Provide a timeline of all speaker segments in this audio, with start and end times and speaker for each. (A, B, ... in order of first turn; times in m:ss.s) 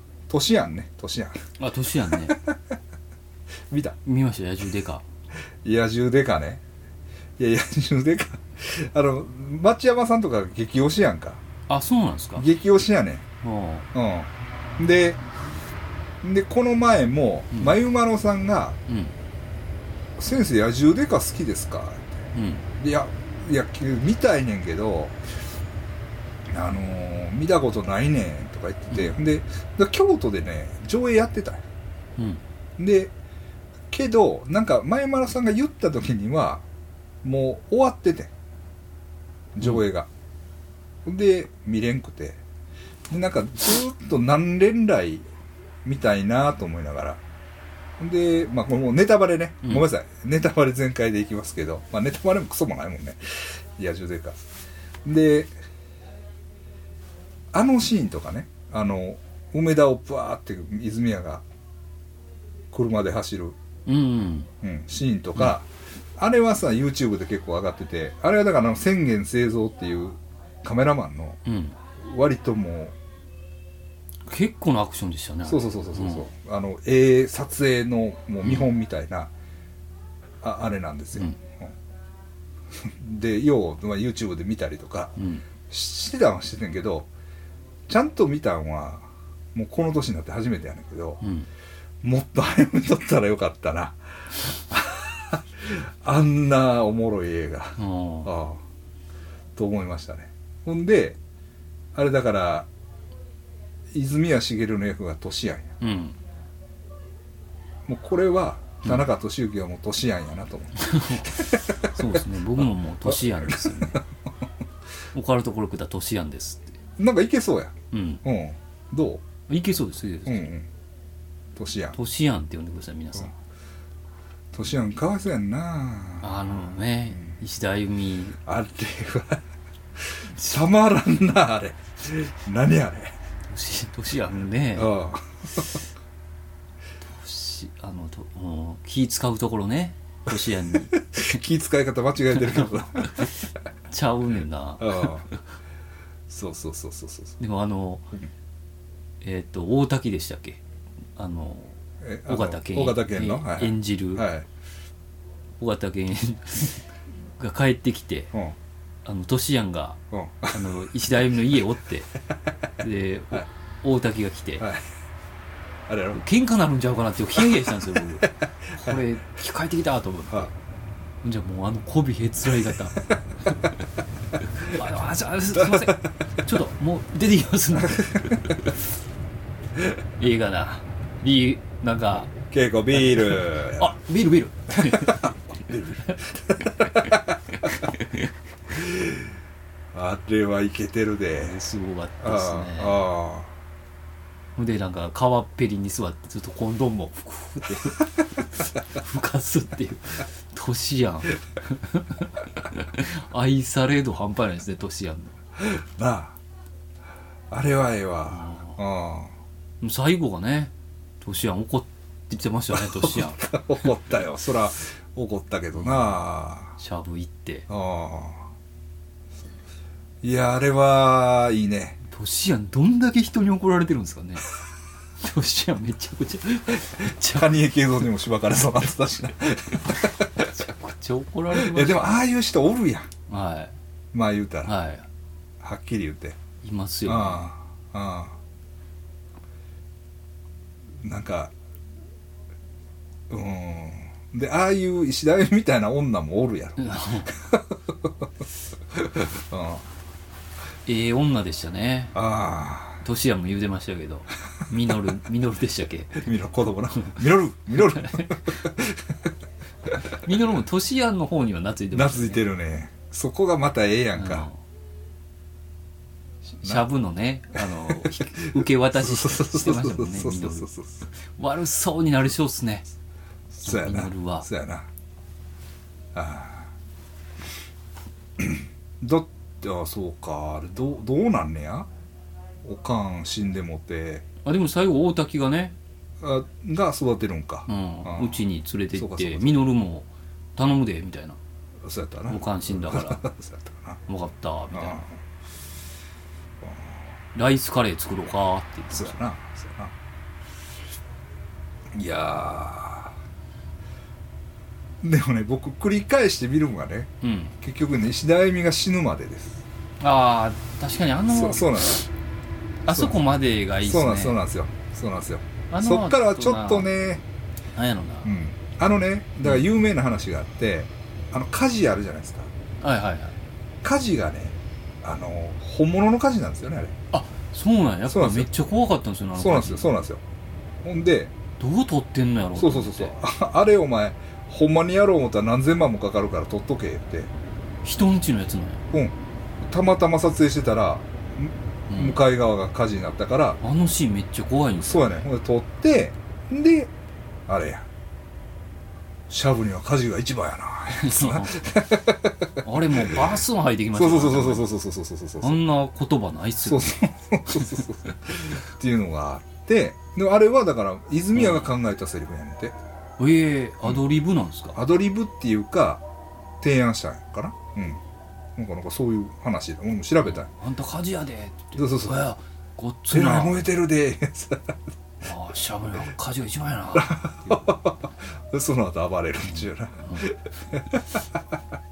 0:00.3-0:01.4 A
0:01.6-0:02.4 B
0:02.1-0:02.6 A
0:03.7-0:04.0 A
0:04.0-0:05.0 B
0:05.6-0:06.6 A
0:07.4-0:11.4 A
0:11.7-0:12.4 B
0:12.4-0:13.2 A
0:13.4-0:13.9 B
0:13.9-0:15.2 A
0:16.2-0:18.8 A
0:18.9-0:19.1 B
0:20.2-0:22.2 A
0:22.3-0:22.6 B
0:22.8-0:25.2 A
0:26.5-0:31.6 A
0:32.2-0:32.4 B
0:32.8-0:33.1 A
0:33.9-0:36.6 A
0:37.2-0:38.3 A
0:39.5-0:40.1 A
0:41.0-0:42.4 A
0:43.1-0:45.2 A
0:45.8-0:47.2 A
0:48.0-0:54.4 A
0:55.0-0:55.5 A
0:57.5-1:01.4 A
1:02.7-1:03.6 A
1:03.8-1:04.5 B
1:04.6-1:11.4 A
1:11.4-1:11.8 B
1:12.0-1:12.9 A
1:14.2-1:16.3 B
1:15.4-1:19.3 A
1:18.4-1:18.7 B
1:20.4-1:21.7 A
1:22.8-1:25.2 A
1:25.2-1:25.4 B
1:25.7-1:27.1 A
1:27.9-1:31.2 A
1:31.2-1:31.5 B
1:32.0-1:38.6 A
1:37.8-1:38.3 B
1:39.5-1:41.2 A
1:41.9-1:42.7 A
1:43.9-1:45.8 A
1:45.8-1:46.2 B
1:47.9-1:54.0 A
1:50.8-1:54.0 B
1:55.1-1:56.8 B
1:57.0-1:59.2 A
1:57.9-1:58.2 B
1:59.5-2:00.5 B
2:00.2-2:00.7 A
2:01.6-2:02.0 A
2:01.9-2:03.3 B
2:04.5-2:06.3 A
2:06.2-2:08.4 B
2:08.4-2:09.4 A
2:10.0-2:13.1 A
2:13.5-2:14.9 B
2:14.7-2:15.8 A
2:17.0-2:21.4 B
2:20.9-2:23.3 A
2:22.3-2:23.3 B
2:23.9-2:25.4 B
2:24.8-2:25.3 A
2:26.3-2:27.4 A
2:27.4-2:28.1 B
2:29.2-2:30.6 B
2:31.1-2:31.7 B
2:32.0-2:34.5 A
2:32.3-2:34.2 B
2:35.6-2:38.3 B
2:39.0-2:42.1 B
2:40.1-2:40.9 A
2:42.8-2:44.6 B
2:44.6-2:44.9 A
2:45.9-2:46.2 A
2:46.1-2:50.5 B
2:48.2-2:49.0 A
2:51.2-2:53.5 B
2:54.6-2:58.4 B
2:55.5-2:56.0 A
2:57.8-2:58.4 A
3:00.2-3:02.3 B
3:02.5-3:03.9 A
3:02.9-3:06.2 B
3:04.8-3:05.3 A
3:06.3-3:07.7 A
3:06.8-3:07.1 B
3:07.6-3:08.0 B
3:08.7-3:09.3 A
3:09.9-3:11.6 A
3:11.4-3:13.0 B
3:12.2-3:13.5 A
3:14.6-3:25.4 B
3:25.6-3:26.4 A
3:27.5-3:29.3 A
3:28.3-3:28.8 B
3:29.8-3:33.9 B
3:32.9-3:36.8 A
3:35.7-3:36.1 B
3:36.8-3:37.6 B
3:37.7-3:38.5 A
3:40.2-3:42.0 A
3:42.1-3:44.5 B
3:45.2-3:47.5 B
3:47.0-3:50.5 A
3:50.4-3:52.2 B
3:51.5-3:53.1 A
3:53.3-3:53.7 B
3:54.1-3:54.7 A
3:54.6-3:55.1 B
3:55.6-3:56.4 A
3:56.6-3:57.5 B
3:57.0-3:58.4 A
4:01.0-4:01.5 A
4:03.3-4:08.1 A
4:06.8-4:07.3 B
4:08.9-4:09.8 A
4:10.8-4:12.1 B
4:12.1-4:13.0 A
4:13.0-4:16.3 B
4:16.2-4:19.2 A
4:17.8-4:18.3 B
4:20.2-4:22.4 B
4:21.9-4:24.5 A
4:24.2-4:24.6 B
4:26.5-4:32.8 B
4:28.0-4:31.1 A
4:33.5-4:34.9 A
4:33.6-4:34.5 B
4:36.1-4:36.7 A
4:38.4-4:41.9 A
4:42.6-4:44.2 A
4:44.4-4:45.8 B
4:46.2-4:49.6 A
4:47.7-4:51.4 B
4:51.8-4:54.0 A
4:52.3-4:53.2 B
4:54.1-4:55.0 B
4:54.7-4:55.1 A
4:57.3-4:59.2 B
4:58.9-4:59.9 A
5:01.9-5:03.2 A
5:05.0-5:09.6 A
5:07.2-5:07.5 B
5:10.0-5:12.0 B
5:11.3-5:12.0 A
5:12.8-5:14.4 B
5:12.8-5:13.2 A
5:13.8-5:17.2 A
5:15.7-5:16.9 B
5:17.7-5:18.4 B
5:18.2-5:22.5 A
5:22.8-5:23.3 B
5:23.8-5:27.0 A
5:27.1-5:29.9 B
5:28.1-5:28.5 A
5:29.4-5:30.2 A
5:30.8-5:31.3 A
5:31.6-5:33.1 B
5:32.6-5:37.3 A
5:37.8-5:38.8 B
5:39.6-5:43.6 A
5:41.9-5:42.2 B
5:43.6-5:45.3 B
5:44.8-5:46.9 A
5:47.5-5:47.8 A
5:49.3-5:53.4 A
5:50.9-5:51.7 B
5:52.6-5:54.7 B
5:53.9-5:55.6 A
5:55.4-5:57.0 B
5:56.6-6:02.8 A
5:57.5-5:57.8 B
6:01.3-6:01.7 B
6:03.2-6:04.8 B
6:04.7-6:06.0 A
6:06.6-6:08.0 A
6:08.6-6:10.5 A
6:10.2-6:13.6 B
6:11.8-6:12.2 A
6:13.1-6:14.8 A
6:15.2-6:17.7 B
6:17.0-6:21.4 A
6:19.5-6:20.2 B